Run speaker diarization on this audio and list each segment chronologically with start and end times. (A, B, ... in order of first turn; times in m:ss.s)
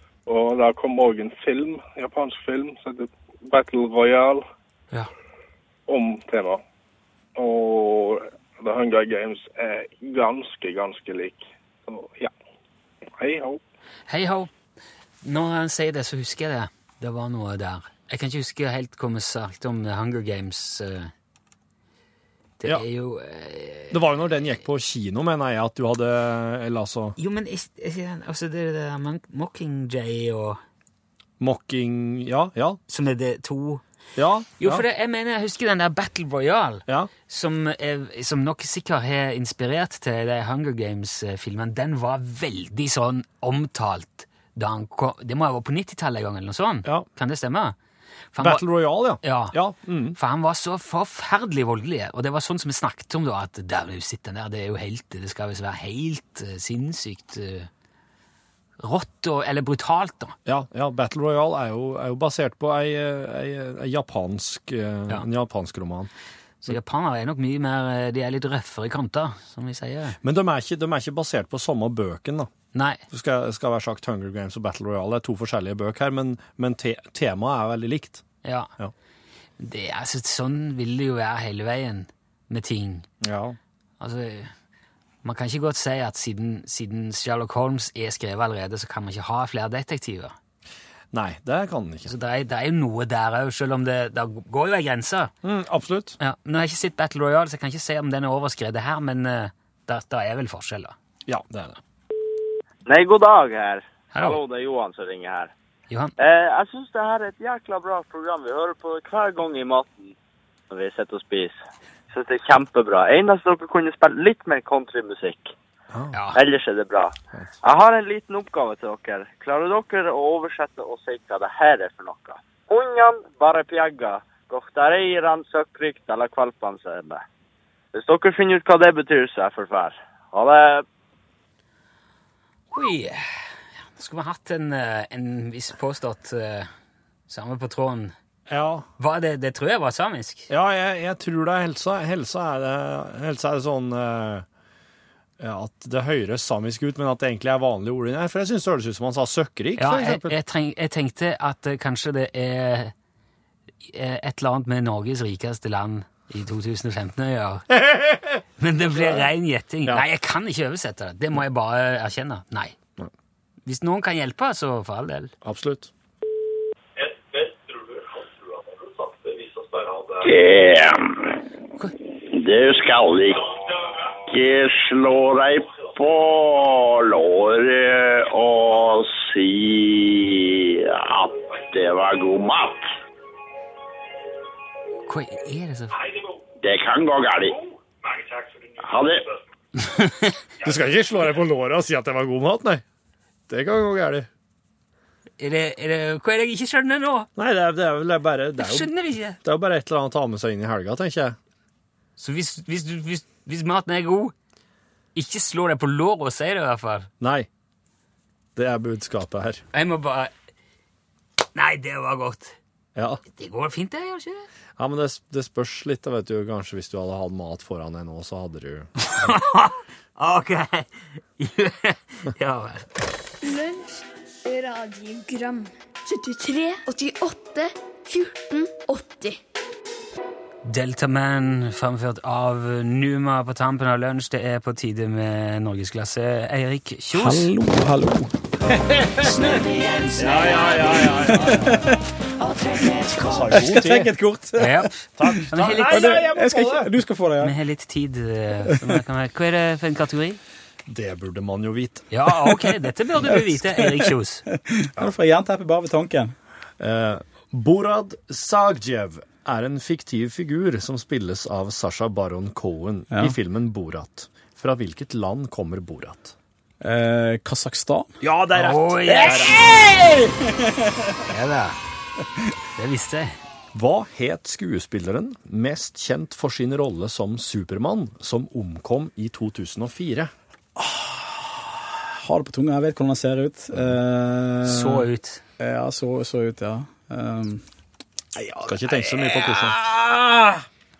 0:00.2-0:04.4 A
0:05.9-0:06.6 A
0:07.4-0:12.3 A
0:13.2-0:13.6 A
0:14.1-0:14.5 B
0:15.2-0:21.1 B
0:22.6-0:24.0 B
0:23.9-0:27.2 C
0:27.2-0:30.6 B
0:31.4-0:32.8 C
0:32.9-0:33.8 B
0:34.2-0:34.8 C
0:34.6-0:47.7 B
0:48.3-0:48.6 B
0:48.4-0:50.2 C
0:49.2-0:49.6 B
0:50.1-0:57.7 B
0:58.8-1:00.4 B
1:00.4-1:06.1 C
1:06.6-1:10.2 B
1:10.2-1:12.5 C
1:12.7-1:13.0 B
1:13.1-1:18.2 C
1:18.4-1:18.7 B
1:19.6-1:23.0 B
1:23.2-1:23.6 C
1:24.0-1:24.5 B
1:25.2-1:30.3 B
1:31.1-1:32.1 C
1:32.0-1:35.3 B
1:35.4-1:36.2 C
1:36.2-1:40.9 B
1:41.2-1:41.8 C
1:42.9-1:45.5 D
1:44.1-1:44.4 B
1:46.2-1:50.1 D
1:50.7-1:51.6 D
1:52.1-1:55.5 D
1:55.9-1:56.2 C
1:56.1-1:56.4 B
1:56.3-2:07.2 D
2:07.9-2:10.8 D
2:12.7-2:13.4 B
2:14.0-2:16.7 B
2:17.3-2:18.1 B
2:18.5-2:18.8 C
2:19.0-2:20.5 B
2:20.5-2:24.4 C
2:25.4-2:30.4 C
2:29.8-2:32.9 B
2:33.8-2:37.6 B
2:37.7-2:39.2 C
2:38.6-2:42.8 B
2:43.6-2:45.3 B
2:45.4-2:45.9 C
2:50.2-2:51.4 E
2:52.3-2:53.6 E
2:54.3-3:02.9 E
3:05.0-3:06.0 B
3:06.6-3:07.7 E
3:08.8-3:09.4 E
3:09.8-3:10.3 B
3:10.6-3:12.8 C
3:13.5-3:14.3 C
3:15.4-3:17.3 B
3:17.4-3:21.4 C
3:18.6-3:19.4 B
3:22.2-3:24.3 B
3:25.1-3:27.1 B
3:27.2-3:27.5 C
3:28.6-3:29.6 C
3:29.7-3:30.3 B
3:31.5-3:32.6 B
3:32.9-3:33.2 C
3:33.4-3:34.5 B
3:34.8-3:38.9 C
3:39.0-3:43.0 B
3:43.4-3:49.4 F
3:50.6-3:57.5 B
3:57.1-3:58.3 G
3:59.2-3:59.6 B
4:00.1-4:02.0 C
4:01.3-4:02.0 G
4:03.1-4:04.1 C
4:03.5-4:07.5 G
4:04.6-4:06.2 B
4:05.2-4:06.9 C
4:07.4-4:10.4 B
4:10.9-4:12.1 C
4:12.1-4:14.4 B
4:13.2-4:13.9 G
4:14.7-4:16.3 G
4:16.8-4:26.3 C
4:26.8-4:28.1 G
4:28.2-4:29.6 C
4:28.5-4:29.5 B
4:29.2-4:31.2 G
4:31.2-4:31.8 B
4:32.8-4:33.4 B
4:33.7-4:40.3 C
4:40.8-4:45.0 G
4:44.6-4:45.4 B
4:45.6-4:47.6 G
4:48.4-4:48.7 G
4:48.6-4:49.8 C
4:49.8-4:50.5 G